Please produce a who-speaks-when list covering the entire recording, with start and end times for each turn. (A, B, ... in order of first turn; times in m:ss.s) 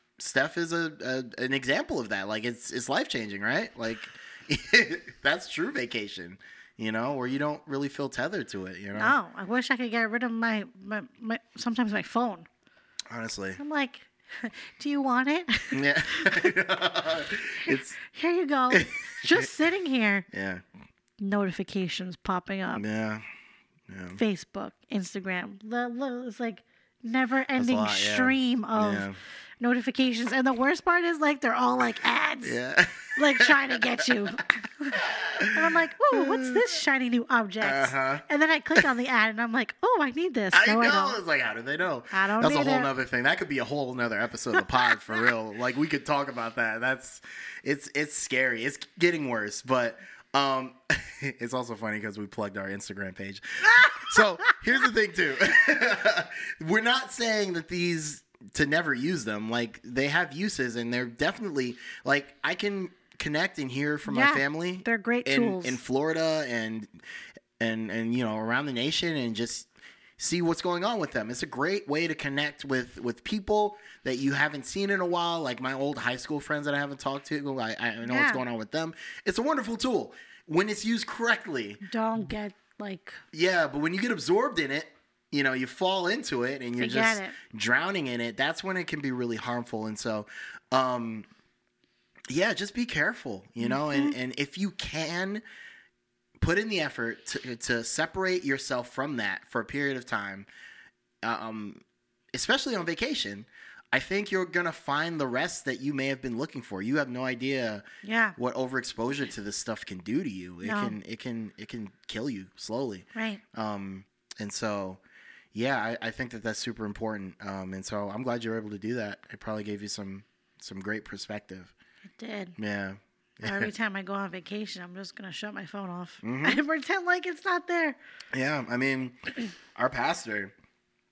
0:00.2-0:09.1 A
0:08.9-0:12.5 B
0:13.1-0:13.6 A
0:13.6-0:16.5 B
0:15.7-0:18.0 A
0:17.6-0:20.3 B
0:18.7-0:19.5 A
0:20.3-0:20.6 A
0:21.2-0:22.8 B
0:22.8-0:23.2 A
0:23.9-0:24.2 A
0:24.1-0:29.0 B
0:27.6-0:29.2 A
0:29.6-0:32.6 B
0:32.4-0:34.1 A
0:33.2-0:35.0 B
0:34.9-0:36.8 A
0:35.5-0:41.2 B
0:37.6-0:38.2 A
0:40.5-1:06.9 A
0:42.1-0:42.9 B
0:53.8-0:54.5 B
1:04.0-1:05.8 B
1:07.6-1:21.8 A
1:18.0-1:18.4 B
1:21.8-1:23.2 B
1:23.3-1:31.2 A
1:26.8-1:27.4 B
1:32.3-1:35.4 A
1:33.6-1:34.1 B
1:36.4-1:40.5 A
1:41.2-1:41.8 A
1:42.3-1:47.8 A
1:48.0-1:48.4 B
1:48.4-1:55.0 A
1:50.6-1:51.0 B
1:53.1-1:53.4 B
1:55.5-2:01.7 A
2:02.2-2:02.6 B
2:02.6-2:03.7 A
2:03.4-2:08.0 B
2:06.2-2:06.6 A
2:08.3-2:09.2 A
2:09.7-2:10.5 A